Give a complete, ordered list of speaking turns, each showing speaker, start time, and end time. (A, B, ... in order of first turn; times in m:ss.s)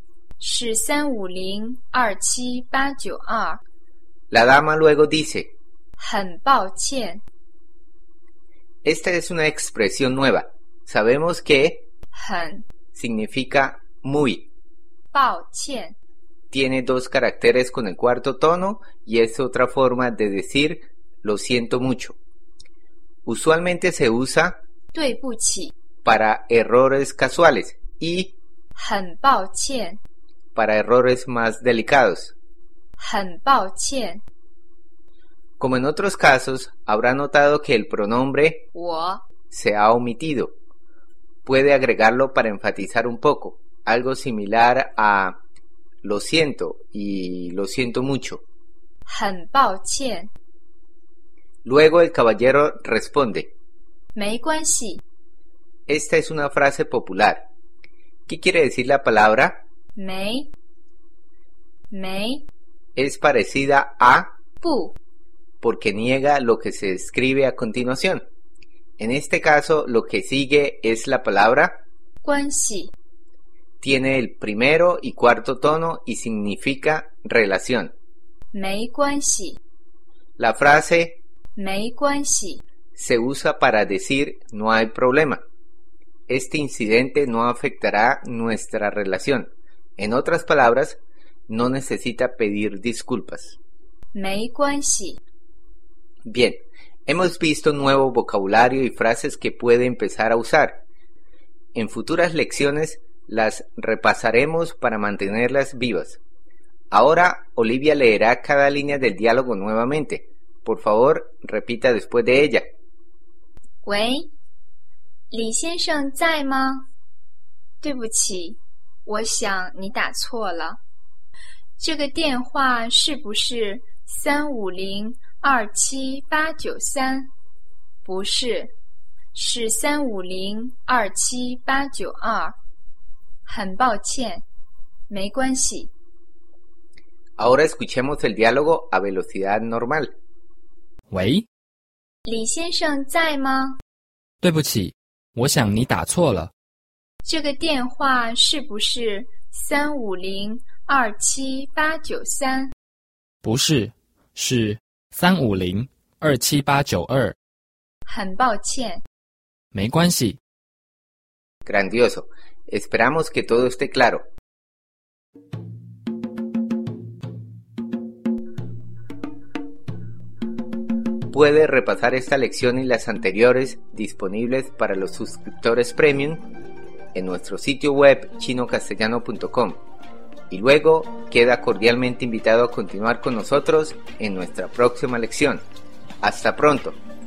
0:00.4-0:03.6 A
0:04.3-0:05.5 B
0:06.0-0:07.2 A
0:08.8-0:11.9 B
0:12.1-0:12.6 A
0:12.9-0:14.5 B
0:15.1-0:16.0 A
0:16.5-0:22.2 B
0:23.2-0:24.6 B
0:24.9-0:25.7 A
0:26.0-0:28.3 B
0:28.8-0:30.0 A
0:30.5-0:32.3 B
0:33.0-0:34.2 A
0:35.6-0:38.6 B
0:38.7-0:39.2 A
0:39.5-0:40.5 B
0:41.4-0:45.4 B
0:46.0-0:48.4 B
0:49.1-0:50.3 A
0:51.6-0:53.5 B
0:54.1-0:55.0 A
0:55.9-0:57.5 B
0:58.3-0:59.6 B
0:59.9-1:00.5 A
1:01.9-1:02.5 A
1:03.0-1:04.3 B
1:04.6-1:05.0 A
1:05.6-1:08.2 B
1:09.0-1:11.8 B
1:12.2-1:12.9 A
1:13.8-1:17.9 B
1:18.5-1:19.6 A
1:20.4-1:21.2 B
1:21.6-1:22.6 A
1:22.9-1:25.4 B
1:26.3-1:33.6 B
1:34.1-1:35.2 A
1:36.2-1:40.8 B
1:41.7-1:46.2 B
1:46.9-1:52.7 B
1:53.8-1:54.3 A
1:55.3-1:56.9 A
1:57.8-2:00.8 A
2:01.8-2:07.3 A
2:08.0-2:08.7 A
2:09.3-2:12.6 A
2:13.4-2:14.4 A
2:15.1-2:15.9 A
2:17.4-2:20.1 B
2:21.1-2:21.4 C
2:22.2-2:23.8 A
2:24.4-2:26.5 C
2:27.2-2:32.7 A
2:33.4-2:37.3 C
2:38.0-2:39.0 A
2:39.7-2:40.4 C
2:41.6-2:44.2 B
2:51.3-2:56.4 B
2:57.1-2:59.8 B
3:00.5-3:05.6 B
3:06.2-3:07.0 B